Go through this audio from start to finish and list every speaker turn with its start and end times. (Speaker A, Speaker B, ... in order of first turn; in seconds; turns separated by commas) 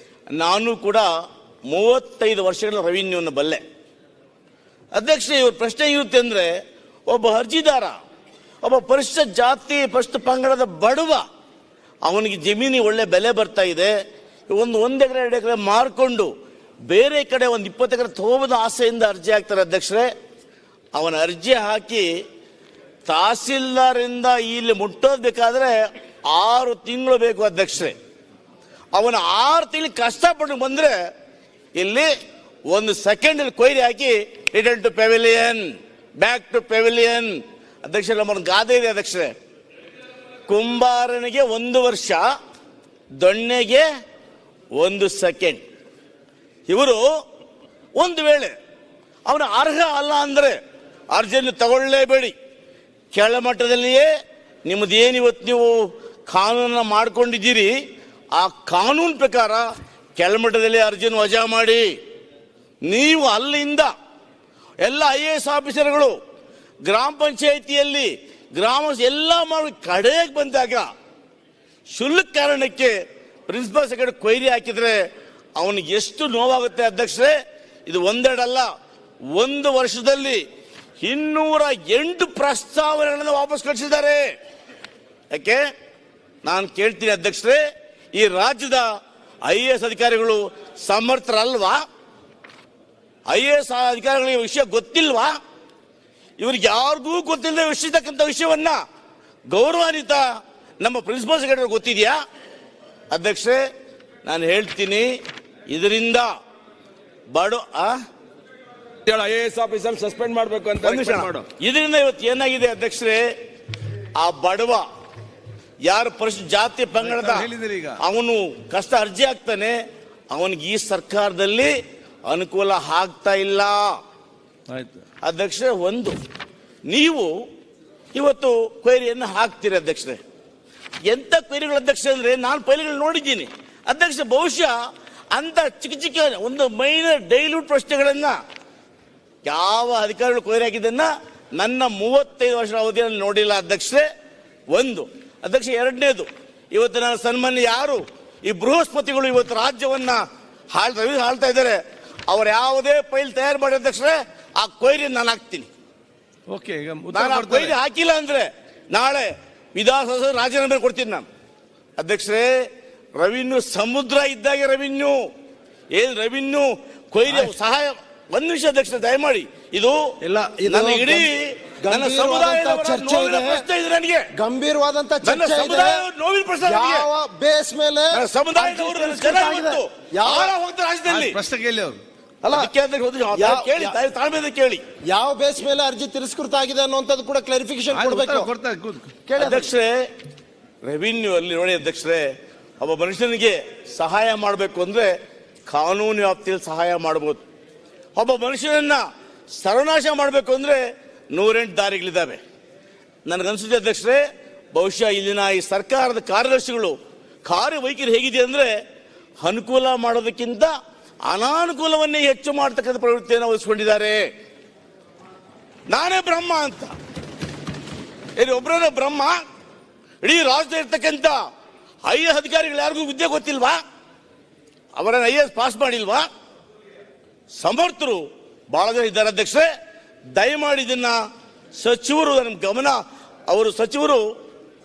Speaker A: 0.3-1.1, Speaker A: 1.7-3.6, Speaker A: 5.0-6.5, Speaker A: 7.1-8.0, Speaker A: 8.6-11.2, Speaker A: 12.1-13.9, Speaker A: 14.5-16.3, Speaker A: 16.9-20.1, Speaker A: 20.9-22.1, Speaker A: 23.1-25.8, Speaker A: 26.3-27.9, Speaker A: 28.9-30.9, Speaker A: 31.8-32.1, Speaker A: 32.7-35.6, Speaker A: 36.2-39.3, Speaker A: 40.5-42.2, Speaker A: 43.2-43.9, Speaker A: 44.8-45.6, Speaker A: 46.7-47.0, Speaker A: 48.0-48.5, Speaker A: 49.3-50.6, Speaker A: 51.1-52.3, Speaker A: 53.1-54.1, Speaker A: 54.7-57.7, Speaker A: 58.4-61.9, Speaker A: 62.9-63.9, Speaker A: 64.8-66.2, Speaker A: 66.9-70.9, Speaker A: 71.9-72.9, Speaker A: 73.5-75.0, Speaker A: 75.6-77.3, Speaker A: 77.9-78.7, Speaker A: 79.4-80.4, Speaker A: 81.0-84.2, Speaker A: 85.3-85.6, Speaker A: 86.5-87.6, Speaker A: 88.1-88.9, Speaker A: 89.5-91.8, Speaker A: 93.3-95.3, Speaker A: 96.4-98.8, Speaker A: 99.5-100.2, Speaker A: 100.8-102.2, Speaker A: 103.1-103.6, Speaker A: 104.2-105.1, Speaker A: 105.7-106.3, Speaker A: 107.3-108.0, Speaker B: 109.1-111.4, Speaker A: 110.8-113.2, Speaker A: 114.2-114.8, Speaker A: 115.9-117.5, Speaker B: 117.0-118.0, Speaker A: 118.0-119.8, Speaker A: 120.3-121.7, Speaker A: 122.3-124.0, Speaker B: 124.7-125.0, Speaker A: 125.2-126.2, Speaker A: 126.9-127.3, Speaker A: 128.1-130.2, Speaker A: 131.1-134.8, Speaker A: 135.3-138.4, Speaker A: 139.4-144.1, Speaker A: 144.7-150.2, Speaker A: 150.7-155.7, Speaker B: 156.5-157.8, Speaker A: 157.1-161.3, Speaker A: 162.0-162.7, Speaker A: 163.2-165.2, Speaker A: 165.9-170.0, Speaker C: 170.2-171.3, Speaker A: 170.7-174.3, Speaker C: 171.8-173.7, Speaker C: 174.3-176.1, Speaker A: 175.2-177.1, Speaker C: 176.6-180.5, Speaker A: 178.1-181.4, Speaker B: 181.1-182.0, Speaker C: 182.4-182.7, Speaker A: 182.5-184.8, Speaker C: 183.3-184.0, Speaker C: 185.1-188.5, Speaker B: 187.9-189.1, Speaker C: 189.3-189.7, Speaker A: 189.4-190.1, Speaker A: 190.8-192.3, Speaker A: 192.8-195.1, Speaker A: 195.7-197.4, Speaker A: 198.2-199.0, Speaker A: 199.6-200.8, Speaker A: 201.3-202.4, Speaker A: 203.3-204.2, Speaker A: 204.8-207.0, Speaker A: 207.5-208.7, Speaker A: 209.4-210.7, Speaker A: 211.3-214.2, Speaker A: 215.9-216.9, Speaker A: 218.4-219.4, Speaker A: 220.2-221.4, Speaker A: 222.1-223.8, Speaker A: 225.0-226.3, Speaker A: 227.6-229.7, Speaker A: 230.4-231.2, Speaker A: 231.8-234.2